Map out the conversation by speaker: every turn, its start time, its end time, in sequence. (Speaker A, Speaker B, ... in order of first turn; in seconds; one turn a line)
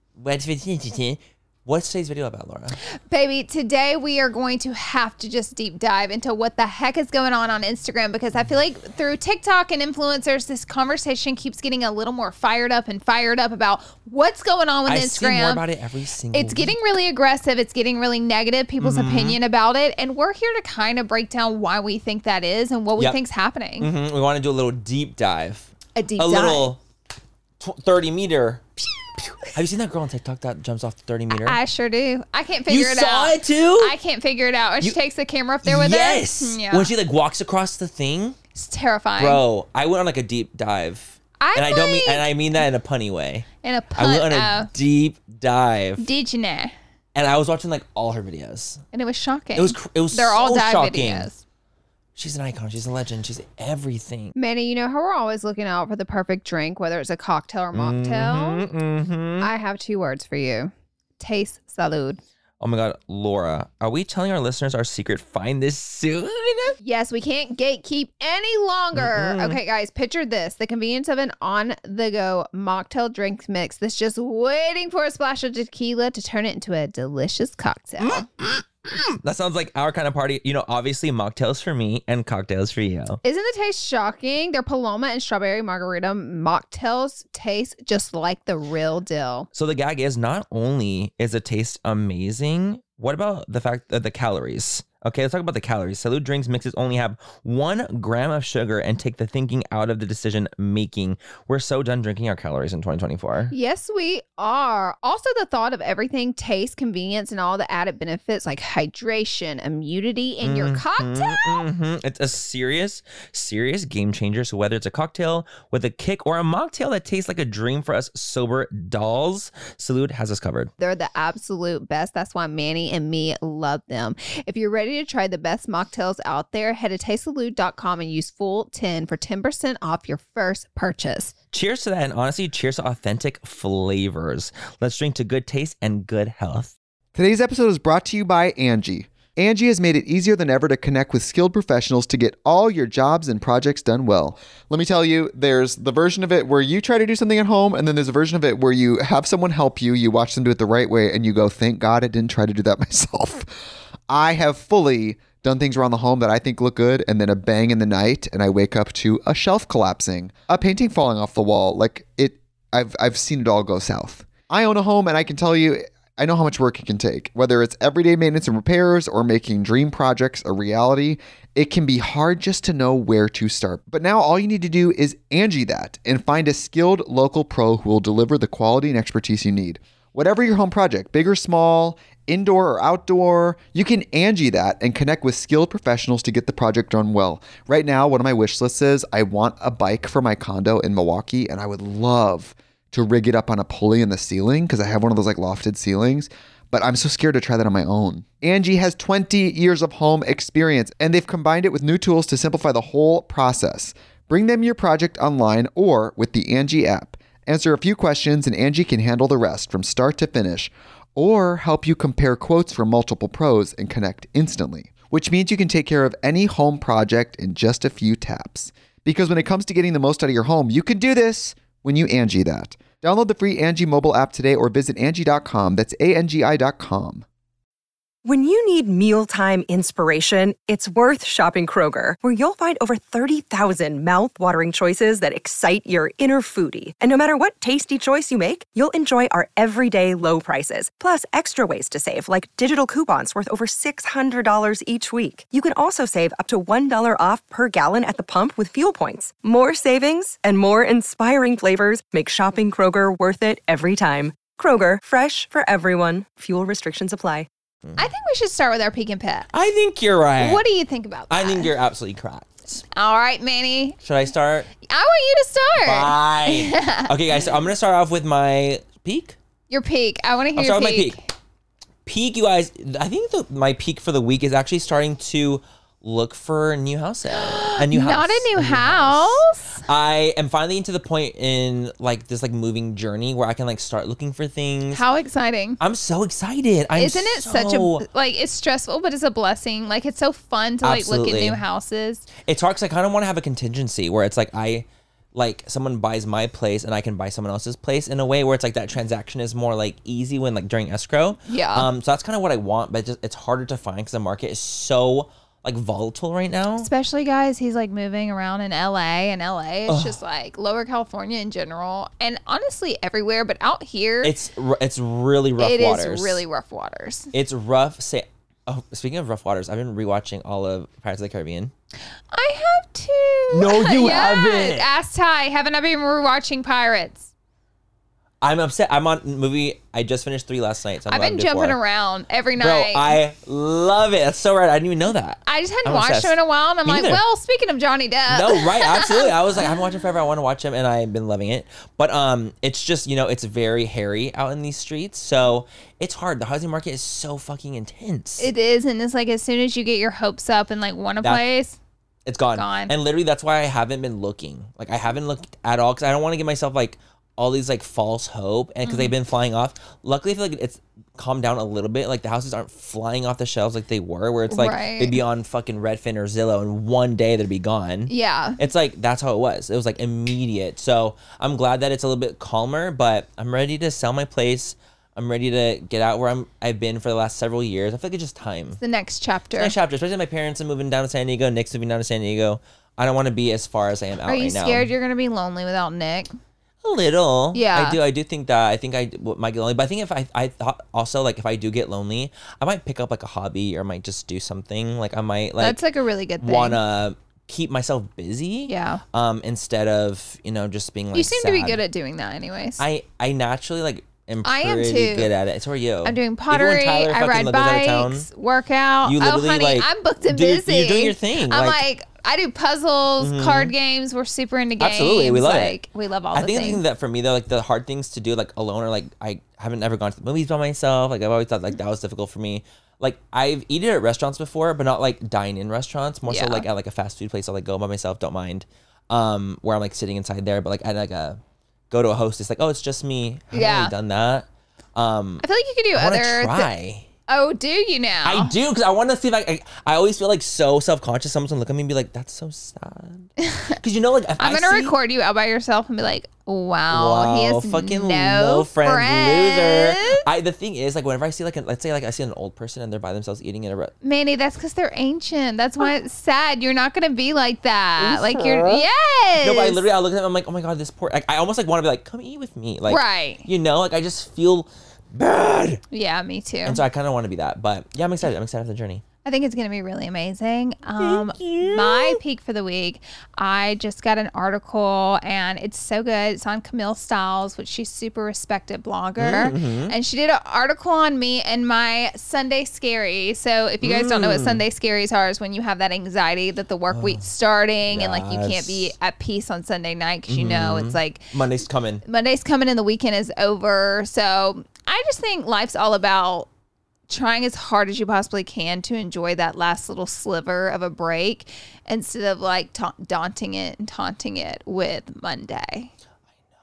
Speaker A: 0.2-2.8
Speaker B: 3.0-15.6
Speaker A: 14.9-16.7
Speaker B: 16.3-23.9
Speaker A: 18.8-19.4
Speaker A: 23.8-26.8
Speaker B: 25.9-26.7
Speaker A: 27.6-28.6
Speaker A: 29.2-31.6
Speaker B: 31.3-36.9
Speaker A: 32.7-33.9
Speaker A: 35.6-38.4
Speaker B: 38.5-39.4
Speaker A: 39.2-46.0
Speaker B: 41.4-42.3
Speaker B: 43.6-44.7
Speaker B: 46.0-46.7
Speaker A: 47.1-48.8
Speaker B: 48.9-51.4
Speaker A: 49.5-51.3
Speaker A: 52.1-54.4
Speaker B: 54.4-58.6
Speaker A: 57.7-59.5
Speaker B: 59.4-62.2
Speaker A: 62.6-66.8
Speaker B: 66.8-78.2
Speaker A: 68.9-69.6
Speaker A: 78.0-83.2
Speaker B: 83.2-89.5
Speaker A: 89.5-103.5
Speaker B: 103.5-111.7
Speaker A: 110.4-120.7
Speaker B: 120.8-131.3
Speaker A: 131.5-136.7
Speaker C: 137.2-153.5
Speaker C: 154.1-227.2
Speaker D: 228.2-257.5
Speaker B: 258.0-259.5
Speaker A: 259.5-260.6
Speaker B: 260.4-261.7
Speaker A: 261.3-262.8
Speaker B: 262.9-264.0
Speaker A: 264.0-264.7
Speaker B: 264.8-267.1
Speaker A: 265.8-269.4
Speaker B: 269.7-271.2
Speaker A: 270.6-271.2
Speaker A: 272.0-285.0
Speaker B: 277.3-279.8
Speaker B: 284.9-285.8
Speaker A: 285.8-288.0
Speaker B: 287.0-292.3
Speaker A: 290.8-291.6
Speaker A: 292.4-306.9
Speaker B: 301.5-301.9
Speaker B: 306.8-314.3
Speaker A: 309.9-310.1
Speaker A: 314.2-316.4
Speaker B: 315.6-317.3
Speaker A: 317.3-321.7
Speaker B: 322.3-327.3
Speaker A: 323.5-324.9
Speaker A: 328.4-331.8
Speaker B: 331.1-333.2
Speaker A: 332.6-337.2
Speaker B: 335.4-339.7
Speaker A: 338.3-348.5
Speaker B: 348.4-351.8
Speaker A: 352.2-378.8
Speaker B: 352.6-352.9
Speaker B: 358.9-359.1
Speaker B: 364.5-365.2
Speaker B: 368.1-368.6
Speaker B: 378.8-379.7
Speaker A: 379.6-384.9
Speaker B: 384.2-386.3
Speaker A: 386.8-395.8
Speaker B: 387.5-388.0
Speaker B: 395.6-396.8
Speaker A: 396.4-401.8
Speaker B: 398.7-399.0
Speaker B: 401.1-402.8
Speaker A: 402.8-408.3
Speaker B: 404.4-405.3
Speaker B: 406.0-416.8
Speaker A: 409.0-411.8
Speaker A: 413.2-413.7
Speaker A: 414.8-415.8
Speaker A: 416.3-437.1
Speaker B: 426.3-426.6
Speaker B: 433.5-433.9
Speaker B: 435.4-436.7
Speaker B: 437.3-438.5
Speaker A: 438.2-444.9
Speaker B: 443.4-443.8
Speaker B: 444.4-450.2
Speaker A: 446.9-453.9
Speaker B: 454.0-459.8
Speaker A: 458.0-458.8
Speaker A: 459.4-465.8
Speaker B: 462.9-463.5
Speaker B: 465.9-466.8
Speaker A: 466.6-469.0
Speaker B: 469.2-491.3
Speaker A: 471.0-472.2
Speaker A: 479.2-479.9
Speaker A: 483.8-484.6
Speaker A: 486.9-487.3
Speaker A: 487.9-488.9
Speaker A: 490.3-492.0
Speaker B: 492.1-496.5
Speaker B: 497.1-505.9